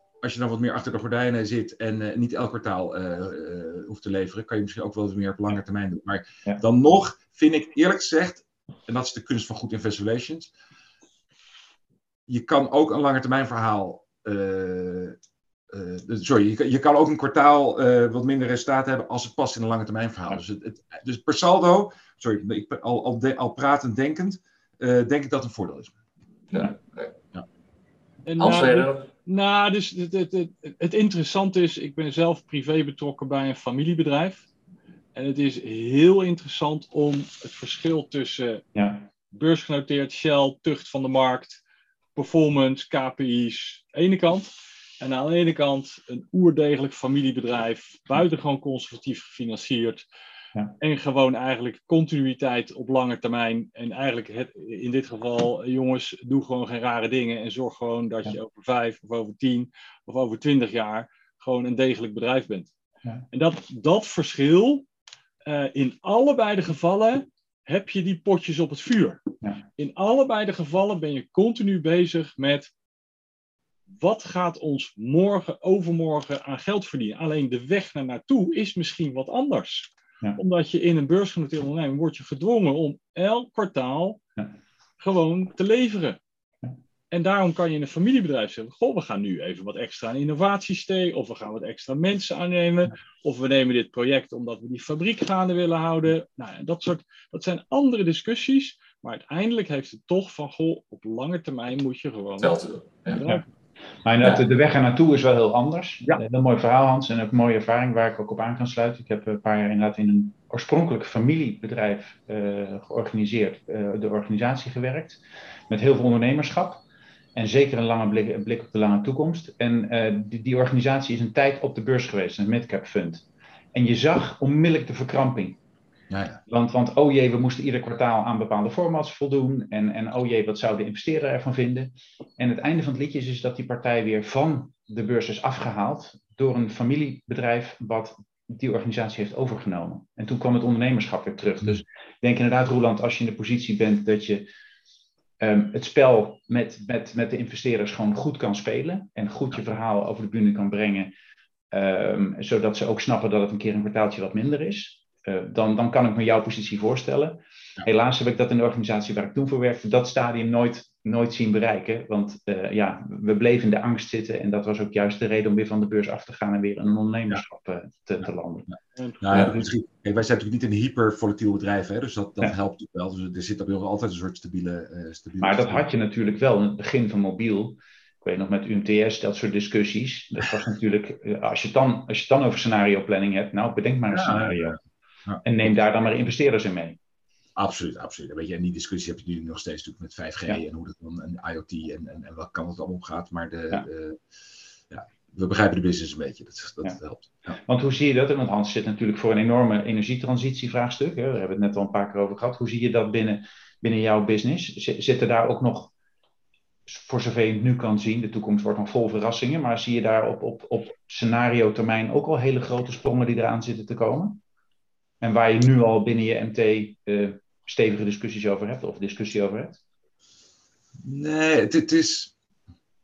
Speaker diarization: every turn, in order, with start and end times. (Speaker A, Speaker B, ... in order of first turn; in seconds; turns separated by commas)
Speaker A: 0.2-10.5, Speaker A: 12.3-15.2, Speaker A: 15.7-25.9, Speaker B: 26.5-27.1, Speaker C: 28.2-34.4, Speaker B: 28.4-29.1, Speaker C: 35.1-38.6, Speaker D: 38.7-39.1, Speaker C: 39.3-41.6, Speaker C: 42.1-50.0, Speaker C: 50.8-62.7, Speaker C: 63.3-64.8, Speaker C: 65.4-69.2, Speaker C: 69.8-72.7, Speaker C: 74.0-84.2, Speaker C: 85.0-86.2, Speaker C: 87.1-102.6, Speaker B: 102.4-103.2, Speaker C: 103.1-103.4, Speaker D: 104.0-116.8, Speaker D: 117.3-125.6, Speaker A: 126.1-126.4, Speaker D: 126.5-144.5, Speaker D: 145.4-151.1, Speaker D: 151.7-168.7, Speaker A: 168.7-175.8, Speaker C: 168.9-169.5, Speaker B: 169.3-169.5, Speaker D: 175.4-184.8, Speaker A: 184.1-185.4, Speaker D: 185.4-187.0, Speaker A: 187.6-194.2, Speaker A: 194.9-197.6, Speaker D: 197.6-205.9, Speaker D: 206.9-214.4, Speaker D: 215.2-219.8, Speaker A: 221.0-222.3